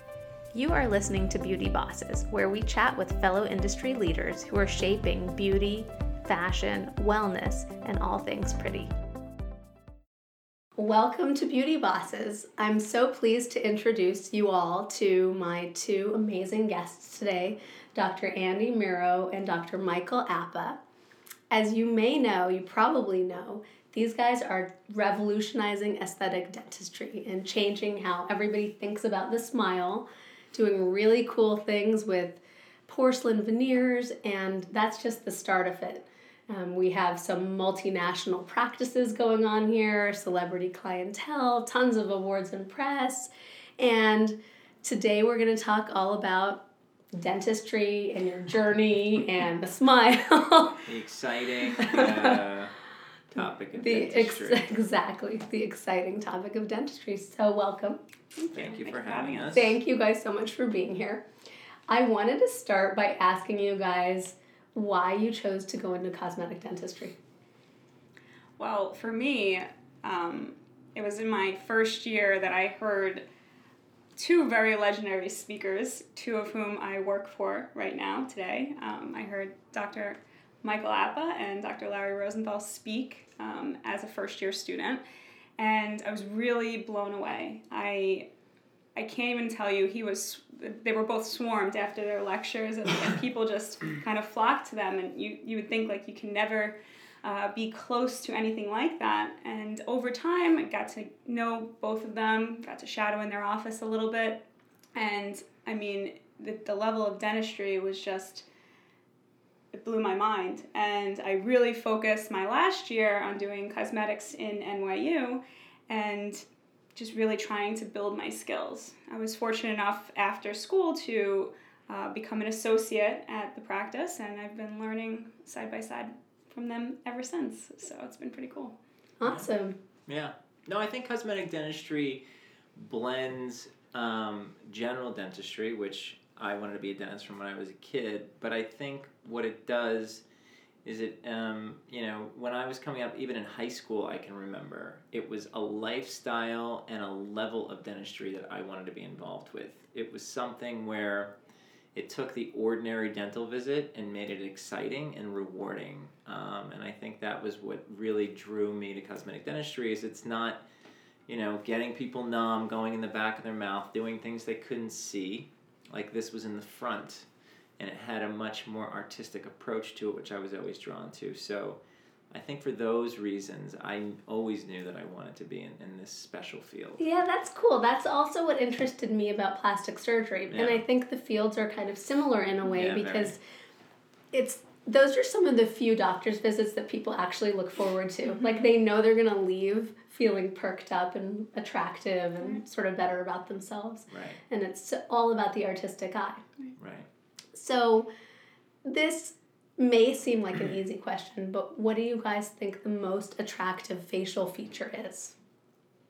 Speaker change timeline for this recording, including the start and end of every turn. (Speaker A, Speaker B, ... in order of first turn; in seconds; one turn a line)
Speaker A: 0.5-8.9
Speaker A: 10.8-20.8
Speaker A: 21.5-46.6
Speaker A: 47.1-50.8
Speaker B: 50.9-52.7
Speaker A: 51.8-52.4
Speaker B: 53.3-54.6
Speaker A: 53.4-58.0
Speaker C: 58.4-59.6
Speaker B: 58.5-59.8
Speaker A: 59.5-61.2
Speaker A: 61.9-67.2
Speaker C: 68.6-73.2
Speaker C: 74.2-85.0
Speaker C: 85.6-88.3
Speaker C: 89.0-104.4
Speaker C: 105.0-108.5
Speaker C: 109.7-116.5
Speaker C: 117.0-128.8
Speaker A: 129.2-129.8
Speaker B: 130.1-132.2
Speaker B: 132.8-140.2
Speaker B: 140.8-151.3
Speaker B: 151.9-160.6
Speaker B: 161.3-167.3
Speaker B: 167.8-171.8
Speaker B: 172.3-177.0
Speaker A: 177.0-183.4
Speaker B: 180.5-180.8
Speaker B: 182.7-183.4
Speaker A: 184.3-196.4
Speaker C: 188.4-188.7
Speaker B: 194.1-194.4
Speaker B: 196.8-197.1
Speaker A: 197.6-198.1
Speaker A: 198.8-205.3